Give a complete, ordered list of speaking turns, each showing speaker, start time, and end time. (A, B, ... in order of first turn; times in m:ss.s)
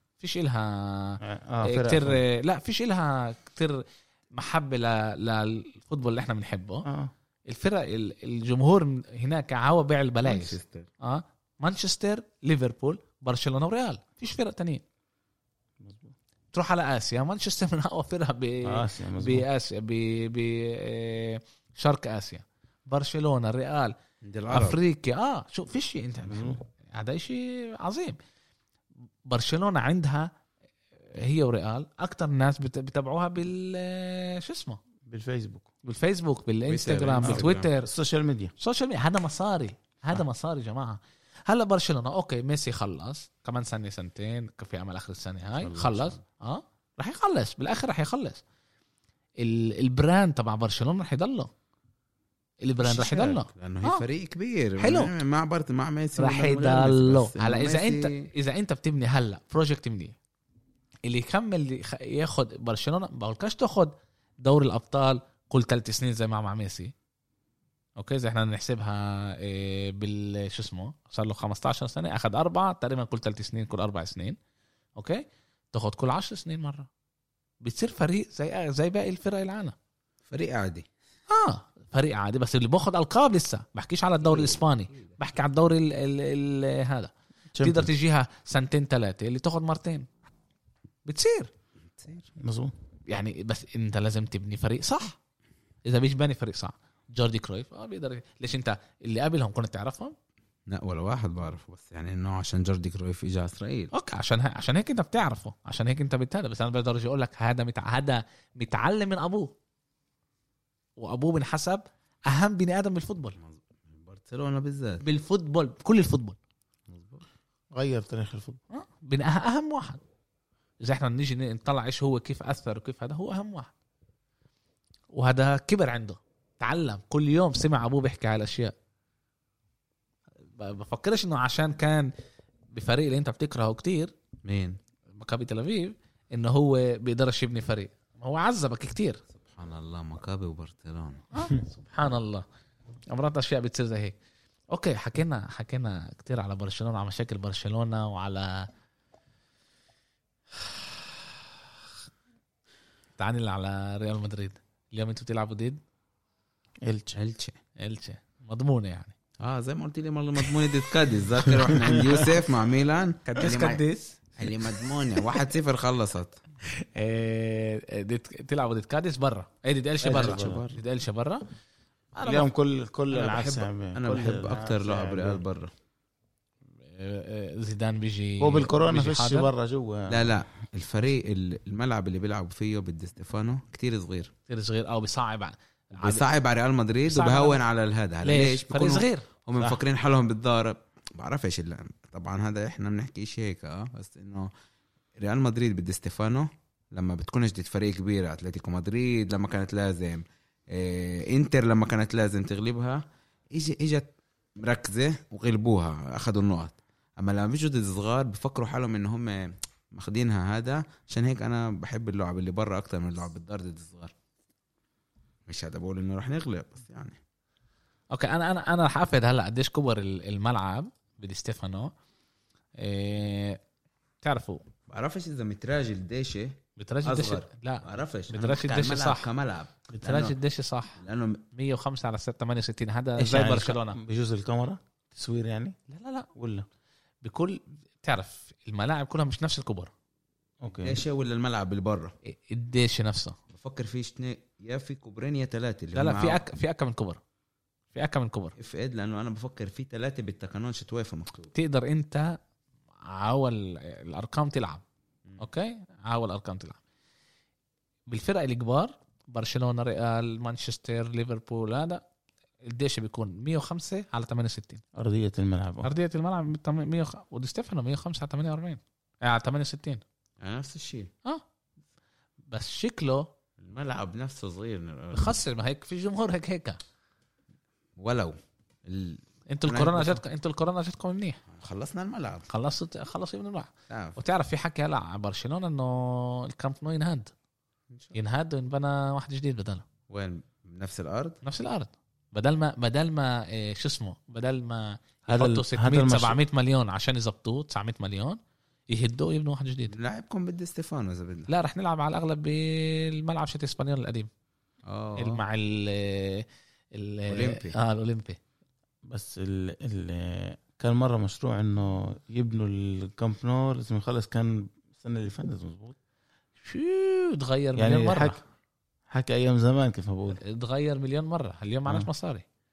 0:00.2-0:06.8 A
0:01.2-0:02.2 B
0:06.8-0:07.1 B
0:07.5-0:14.8 A
0:10.2-0:10.9 C
0:15.8-0:16.1 B
0:16.5-0:23.9 A
0:18.6-0:19.4 B
0:24.2-0:24.8 C
0:24.5-0:28.2 A
0:26.3-0:26.6 B
0:29.3-0:30.3 A
0:31.1-0:34.8 A
0:35.0-0:35.7 B
0:35.8-0:37.9 A
0:36.7-0:37.7 C
0:37.2-0:38.5 B
0:38.6-0:48.4 A
0:45.6-0:46.2 C
0:49.4-0:51.5 A
0:52.6-0:54.0 A
0:52.8-0:58.3 C
0:54.8-0:55.1 A
0:56.2-1:00.2 A
1:01.0-1:06.9 A
1:08.0-1:14.4 A
1:15.0-1:16.9 A
1:17.6-1:19.7 A
1:20.3-1:20.9 C
1:21.3-1:30.1 A
1:24.2-1:25.2 C
1:27.5-1:27.9 B
1:31.0-1:31.5 A
1:32.0-1:32.3 C
1:32.4-1:32.7 B
1:33.1-1:35.2 A
1:35.8-1:40.2 A
1:40.7-1:43.9 C
1:43.9-1:49.5 A
1:51.0-1:53.4 A
1:53.4-1:55.0 C
1:55.0-1:56.4 A
1:56.9-1:57.2 C
1:57.7-1:58.6 B
1:58.7-2:00.0 A
2:00.8-2:03.7 A
2:05.1-2:08.7 A
2:10.5-2:12.1 A
2:12.7-2:14.1 A
2:14.4-2:14.8 C
2:15.2-2:19.2 A
2:19.4-2:21.2 C
2:21.3-2:22.4 A
2:23.1-2:24.2 A
2:24.7-2:28.7 A
2:33.2-2:35.8 A
2:36.8-2:37.2 B
2:37.1-2:37.6 C
2:37.8-2:39.1 A
2:39.4-2:43.8 C
2:41.6-2:42.0 B
2:43.2-2:45.4 A
2:44.4-2:46.4 C
2:46.6-2:51.4 A
2:50.0-2:50.8 C
2:50.0-2:50.6 B
2:52.1-2:52.5 A
2:52.2-2:55.4 B
2:53.1-2:55.7 C
2:56.8-2:59.5 A
2:58.4-3:00.4 B
3:00.1-3:04.3 C
3:04.5-3:06.2 A
3:06.0-3:14.5 C
3:07.0-3:07.6 A
3:08.2-3:09.3 A
3:15.2-3:23.0 C
3:23.5-3:34.1 C
3:35.5-3:37.2 C
3:38.1-3:41.9 A
3:42.8-3:43.6 A
3:44.2-3:44.6 A
3:44.9-3:50.4 C
3:46.8-3:49.3 A
3:49.9-3:51.0 A
3:51.0-3:51.4 C
3:51.5-3:54.0 A
3:53.2-3:55.8 B
3:55.9-3:56.3 A
3:56.3-3:56.7 B
3:57.2-3:59.9 A
4:00.6-4:01.0 B
4:00.8-4:02.1 C
4:02.2-4:03.4 A
4:03.5-4:06.4 C
4:05.9-4:07.2 A
4:07.9-4:08.6 A
4:08.6-4:11.5 C
4:11.5-4:12.4 A
4:13.0-4:14.8 A
4:15.4-4:16.8 A
4:18.1-4:22.0 A
4:22.6-4:24.8 A
4:24.9-4:25.9 B
4:25.8-4:30.0 A
4:30.4-4:31.1 C
4:32.5-4:33.3 A
4:33.6-4:35.4 C
4:35.1-4:36.8 A
4:38.0-4:40.2 C
4:39.5-4:41.4 A
4:41.5-4:42.5 C
4:42.5-4:47.3 A
4:43.9-4:44.2 C
4:47.9-4:48.2 C
4:48.1-4:49.8 A
4:50.1-4:51.4 C
4:51.4-4:58.4 A
4:55.3-4:56.4 B
4:58.9-4:59.9 A
4:59.9-5:01.5 C
5:01.5-5:04.3 A
5:04.8-5:05.4 C
5:05.2-5:08.4 A
5:07.3-5:07.8 C
5:09.0-5:16.0 B
5:16.6-5:18.4 A
5:17.8-5:18.4 B
5:19.1-5:20.4 B
5:20.4-5:22.4 A